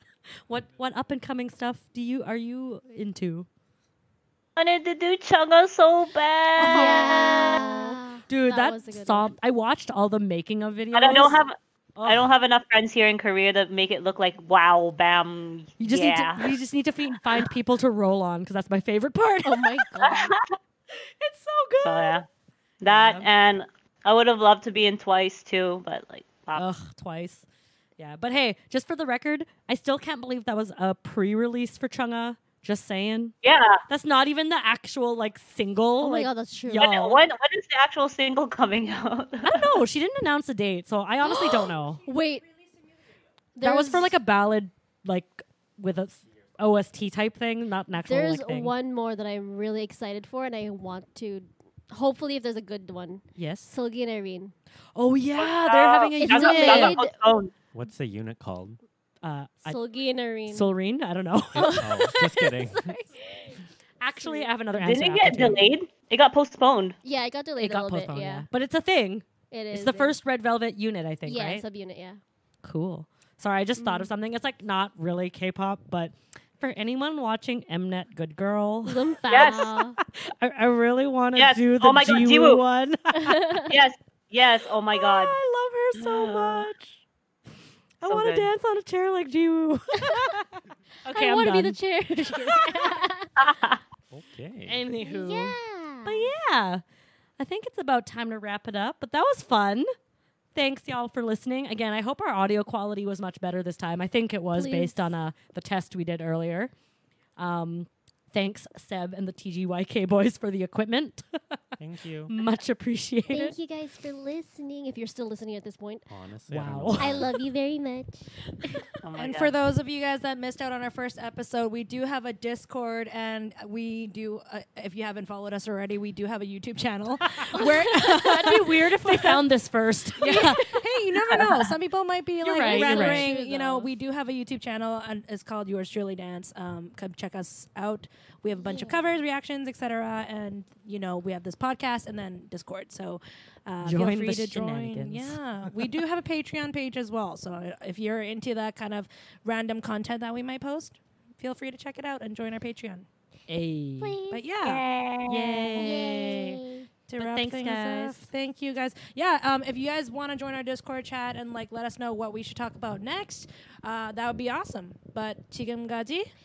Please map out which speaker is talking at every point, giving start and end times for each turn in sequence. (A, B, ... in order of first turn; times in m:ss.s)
0:00.4-0:03.5 A
0:04.6-0:07.6 B
0:06.6-0:07.6 A
0:06.6-0:09.3 C
0:08.3-0:11.4 A
0:10.9-0:16.6 B
0:12.0-0:12.3 A
0:15.8-0:19.8 A
0:19.4-0:20.4 C
0:20.0-0:20.5 B
0:20.9-0:22.2 A
0:21.8-0:22.3 B
0:22.8-0:26.6 B
0:22.9-0:23.3 A
0:26.6-0:27.4 A
0:28.0-0:33.3 A
0:33.4-0:33.8 B
0:33.9-0:37.2 A
0:36.0-0:37.1 C
0:36.7-0:39.8 B
0:39.4-0:42.0 A
0:41.2-0:42.4 C
0:43.6-0:44.2 C
0:43.6-0:48.7 A
0:48.0-0:54.5 C
0:53.4-0:53.7 A
0:54.9-0:57.0 A
0:55.4-0:57.5 B
0:56.2-0:57.2 C
0:57.7-0:58.8 D
0:59.2-0:59.8 A
0:59.6-1:00.7 C
1:00.5-1:02.2 A
1:01.5-1:03.6 C
1:01.6-1:03.0 D
1:04.0-1:05.7 A
1:04.2-1:04.5 C
1:04.7-1:07.0 B
1:07.0-1:08.5 C
1:07.6-1:11.6 A
1:09.5-1:10.2 C
1:11.2-1:12.2 C
1:12.6-1:23.7 A
1:13.8-1:14.1 C
1:18.8-1:20.0 C
1:19.3-1:19.8 B
1:21.4-1:22.6 B
1:23.1-1:23.7 C
1:23.7-1:25.4 B
1:24.9-1:27.0 A
1:25.9-1:26.7 B
1:28.0-1:30.4 A
1:28.0-1:28.5 B
1:31.0-1:33.0 A
1:31.1-1:33.3 C
1:33.4-1:33.8 B
1:34.1-1:34.8 D
1:34.6-1:36.8 A
1:35.0-1:36.3 C
1:37.4-1:39.9 A
1:40.5-1:46.7 A
1:44.5-1:45.1 C
1:47.4-1:51.3 A
1:51.8-1:52.4 D
1:52.3-1:53.6 A
1:53.3-1:56.1 C
1:56.1-1:57.4 D
1:56.5-1:57.2 A
1:57.0-1:58.3 C
1:59.0-1:59.5 B
1:59.2-2:09.4 E
2:07.5-2:10.6 A
2:10.2-2:33.1 E
2:10.3-2:10.8 C
2:12.4-2:13.3 A
2:12.5-2:13.9 C
2:18.6-2:19.2 C
2:23.8-2:26.0 A
2:33.5-2:34.2 A
2:34.0-2:34.4 C
2:34.3-2:34.8 E
2:34.6-2:35.8 B
2:35.3-2:36.6 A
2:35.8-2:36.9 C
2:37.1-2:46.3 E
2:37.2-2:38.3 A